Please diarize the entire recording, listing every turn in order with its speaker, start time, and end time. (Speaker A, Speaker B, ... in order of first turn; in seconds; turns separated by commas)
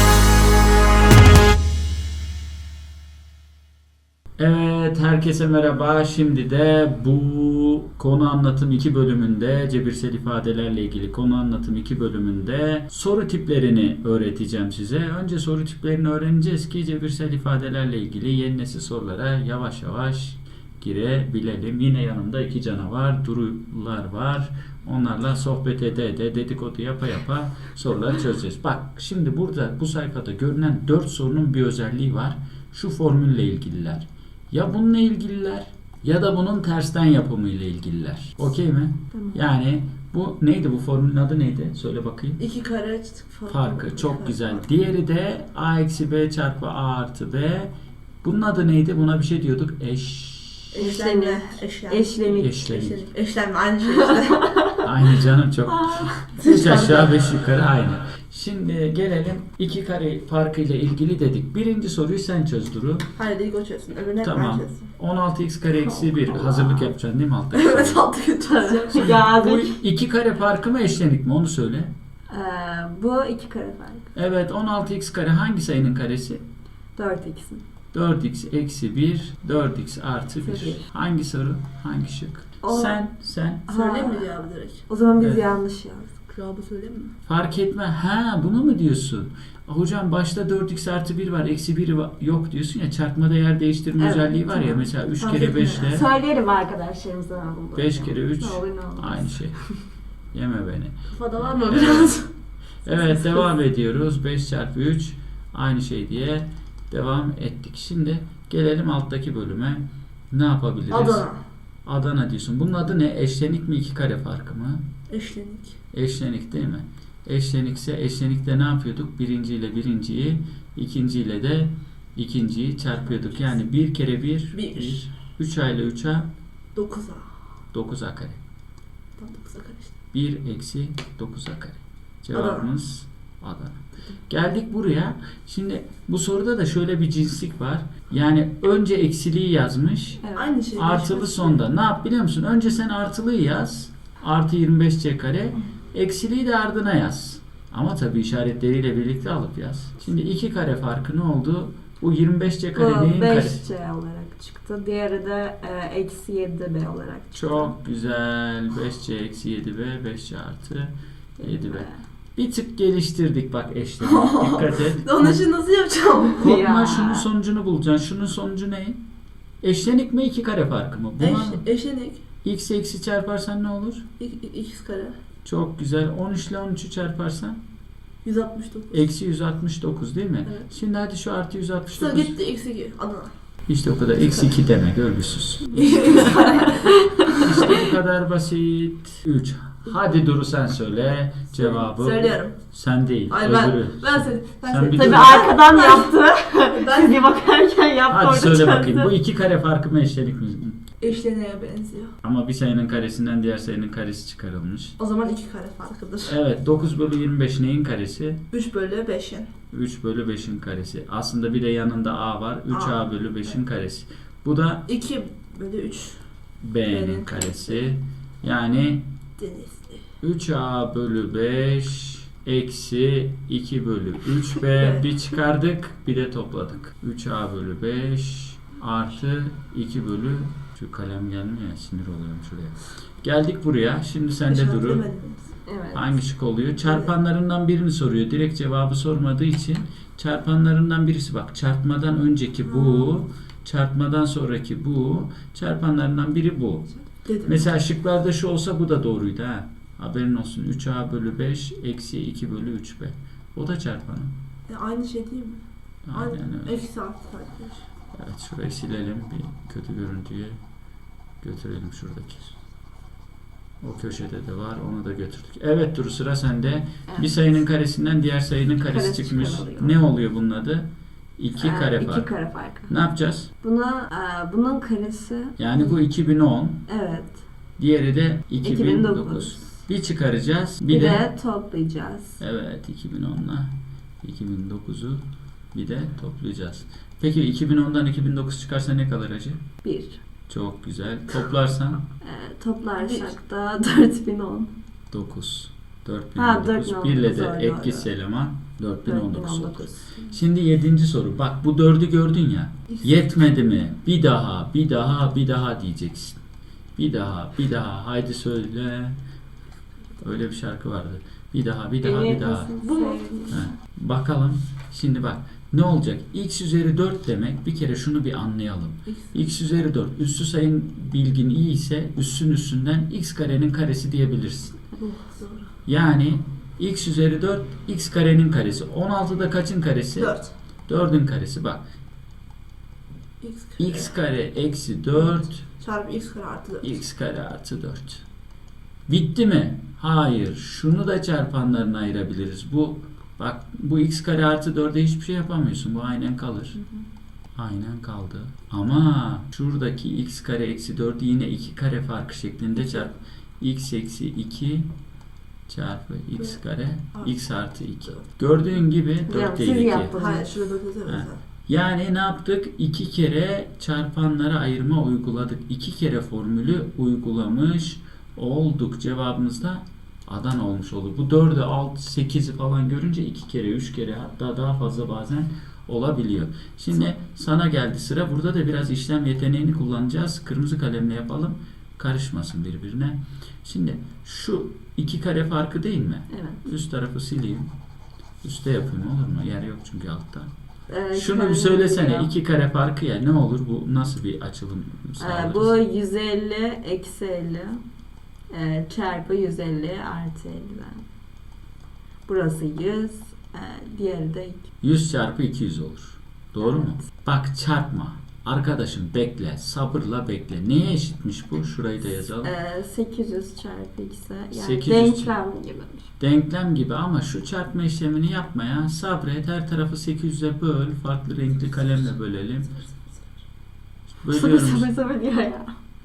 Speaker A: 4.4-42.4, Speaker B: 39.1-39.4, Speaker C: 42.4-44.6, Speaker A: 43.5-50.7, Speaker C: 50.7-54.5, Speaker B: 50.8-52.8, Speaker A: 52.4-53.1, Speaker B: 54.3-54.9, Speaker A: 54.8-63.1, Speaker B: 55.7-56.2, Speaker C: 56.4-57.2, Speaker C: 63.2-64.9, Speaker A: 64.2-68.1, Speaker C: 67.5-69.2, Speaker B: 68.5-69.8, Speaker A: 69.0-71.9, Speaker B: 72.3-74.1, Speaker A: 74.2-76.4, Speaker B: 77.0-77.7, Speaker A: 77.9-83.7, Speaker B: 80.4-80.9, Speaker B: 82.6-83.0, Speaker B: 83.7-84.3, Speaker C: 83.7-84.9, Speaker B: 84.9-86.4, Speaker A: 85.2-85.4, Speaker C: 86.3-87.2, Speaker A: 87.3-96.1, Speaker B: 94.0-94.9, Speaker C: 95.2-96.0, Speaker B: 95.7-99.8, Speaker A: 97.8-99.8, Speaker A: 100.3-102.2, Speaker C: 101.1-102.3, Speaker A: 102.8-111.2, Speaker C: 110.9-111.4, Speaker A: 111.8-114.8, Speaker C: 115.1-115.8, Speaker A: 115.9-126.3, Speaker C: 124.5-125.1, Speaker C: 126.8-127.4, Speaker A: 127.7-128.4, Speaker C: 129.2-130.0, Speaker A: 130.1-140.2, Speaker C: 132.3-132.7, Speaker B: 140.2-140.6, Speaker C: 140.3-141.7, Speaker A: 140.8-153.6, Speaker B: 152.8-157.7, Speaker A: 157.3-165.4, Speaker B: 161.4-162.0, Speaker C: 164.0-166.5, Speaker B: 166.4-167.3, Speaker A: 166.4-169.0, Speaker A: 169.6-171.7, Speaker C: 171.2-172.2, Speaker A: 172.4-174.1, Speaker C: 174.2-175.2, Speaker A: 175.4-177.6, Speaker C: 178.2-179.1, Speaker A: 178.9-182.4, Speaker C: 181.9-183.3, Speaker A: 183.7-186.7, Speaker C: 185.8-186.9, Speaker B: 186.3-187.5, Speaker A: 187.3-195.4, Speaker C: 191.6-192.6, Speaker C: 193.3-196.2, Speaker B: 194.9-199.1, Speaker C: 196.7-197.2, Speaker A: 198.1-200.8, Speaker C: 201.0-202.2, Speaker A: 202.2-205.0, Speaker C: 205.0-206.4, Speaker A: 206.2-208.4, Speaker C: 208.5-209.5, Speaker A: 209.7-214.9, Speaker C: 212.7-213.1, Speaker C: 214.9-216.2, Speaker A: 216.6-219.1, Speaker C: 216.8-217.8, Speaker C: 219.4-220.1, Speaker A: 220.2-235.1, Speaker C: 224.8-225.1, Speaker C: 234.5-235.5, Speaker B: 235.7-236.2, Speaker A: 235.9-246.9, Speaker C: 236.8-237.1, Speaker C: 242.7-243.2, Speaker C: 247.2-247.7, Speaker A: 247.4-254.3, Speaker C: 254.7-257.9, Speaker A: 256.1-256.8, Speaker A: 258.1-260.6, Speaker A: 261.4-262.6, Speaker A: 263.8-272.4, Speaker B: 267.1-267.4, Speaker B: 268.8-269.9, Speaker B: 271.6-272.9, Speaker A: 272.9-273.5, Speaker B: 273.6-276.0, Speaker A: 275.6-276.8, Speaker B: 276.9-277.4, Speaker A: 277.8-281.2, Speaker B: 278.6-279.8, Speaker B: 280.9-282.4, Speaker A: 282.4-289.6, Speaker B: 289.8-290.2, Speaker A: 290.5-292.0, Speaker B: 292.2-294.7, Speaker C: 293.0-293.4, Speaker A: 295.1-306.4, Speaker B: 296.4-298.1, Speaker B: 299.1-300.1, Speaker C: 302.9-303.2, Speaker A: 307.0-309.2, Speaker A: 310.2-312.7, Speaker B: 312.0-313.8, Speaker C: 312.8-313.4, Speaker A: 313.5-324.8, Speaker C: 319.1-319.4, Speaker C: 325.0-325.7, Speaker A: 325.9-331.9, Speaker C: 330.1-330.5, Speaker C: 333.4-334.1, Speaker A: 333.8-335.6, Speaker C: 335.2-337.0, Speaker A: 336.8-338.2, Speaker A: 339.1-346.8, Speaker A: 347.6-354.9, Speaker A: 355.7-360.1, Speaker C: 357.1-358.2, Speaker B: 359.3-360.6, Speaker C: 360.2-361.4, Speaker A: 361.1-387.7, Speaker B: 386.3-386.6, Speaker A: 388.4-390.5, Speaker B: 390.9-392.3, Speaker A: 391.1-395.8, Speaker B: 395.2-397.8, Speaker B: 398.5-401.1, Speaker B: 402.2-404.7, Speaker A: 404.8-412.5, Speaker B: 406.6-407.0, Speaker B: 412.4-416.1, Speaker A: 414.5-415.3, Speaker A: 416.2-422.7, Speaker C: 422.7-423.4, Speaker A: 424.2-424.9, Speaker B: 424.3-425.8